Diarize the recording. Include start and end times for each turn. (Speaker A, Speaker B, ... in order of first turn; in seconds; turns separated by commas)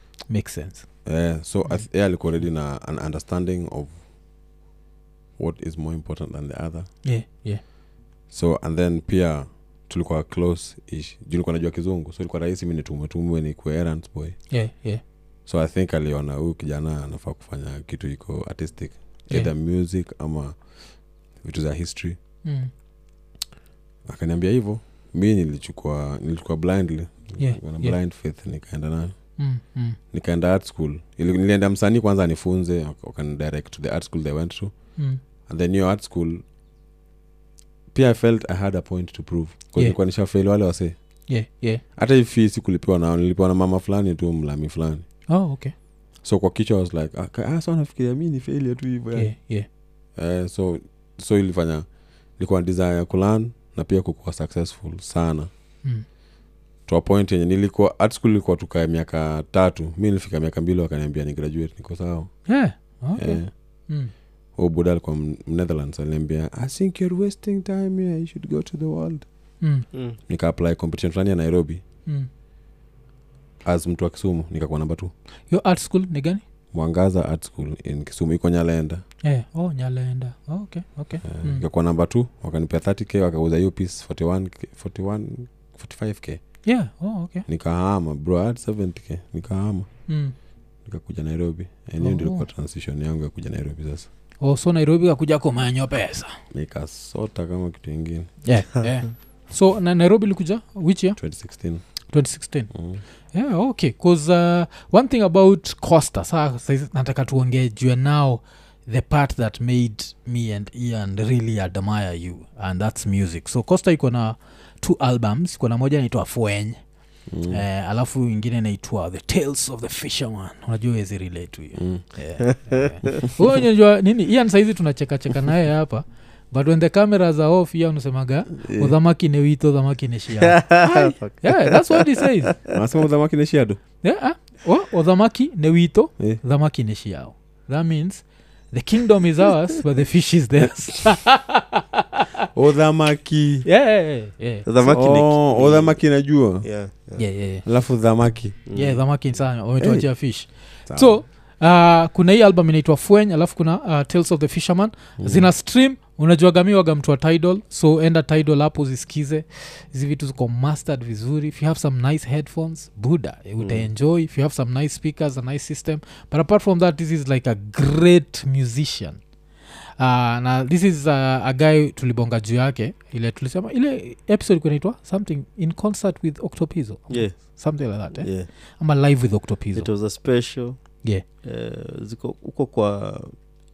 Speaker A: 0.3-0.9, Speaker B: 1.1-4.0, Speaker B: 5.4-6.9, Speaker A: 7.0-7.6, Speaker B: 8.3-14.4, Speaker A: 14.5-15.0, Speaker B: 15.5-20.6, Speaker B: 21.4-22.2, Speaker A: 22.4-22.7, Speaker B: 24.1-29.1, Speaker A: 27.4-27.9, Speaker A: 29.4-30.0, Speaker B: 30.1-34.7, Speaker B: 35.5-36.4, Speaker B: 37.9-41.0, Speaker A: 41.3-41.8, Speaker B: 42.0-45.0, Speaker A: 45.3-45.7, Speaker B: 46.2-49.3, Speaker A: 49.1-49.7, Speaker B: 50.2-51.9, Speaker B: 52.4-55.5, Speaker B: 56.9-62.3, Speaker A: 62.5-64.1, Speaker B: 63.2-63.5, Speaker B: 64.6-69.3, Speaker A: 69.6-69.9, Speaker C: 69.9-70.2, Speaker B: 70.3-71.8, Speaker B: 73.6-75.1, Speaker A: 75.5-76.4, Speaker B: 76.7-79.0, Speaker A: 79.2-81.6, Speaker B: 81.2-86.4, Speaker A: 86.7-87.5, Speaker B: 87.5-89.9, Speaker A: 90.1-90.3, Speaker B: 90.8-94.1, Speaker A: 92.0-92.5, Speaker A: 94.4-96.4, Speaker B: 96.5-98.3, Speaker A: 98.4-101.2, Speaker B: 101.2-101.8, Speaker A: 102.1-102.7, Speaker B: 102.7-103.0, Speaker A: 103.3-116.8, Speaker B: 117.3-117.6, Speaker A: 117.5-132.6, Speaker B: 121.8-122.0, Speaker C: 122.5-123.1, Speaker B: 128.6-129.0, Speaker C: 130.4-132.8, Speaker B: 132.7-133.8, Speaker A: 134.0-142.4, Speaker B: 142.6-143.7, Speaker A: 143.7-144.7, Speaker C: 144.7-146.1, Speaker B: 144.8-146.7, Speaker C: 146.6-147.2, Speaker A: 147.2-147.6, Speaker B: 147.6-148.6, Speaker C: 148.7-149.0, Speaker A: 148.7-169.2, Speaker B: 149.8-150.1, Speaker B: 150.9-151.2, Speaker B: 155.2-155.5, Speaker C: 163.6-163.9, Speaker A: 169.9-179.9, Speaker C: 177.1-178.5, Speaker C: 179.8-180.8, Speaker C: 181.4-183.4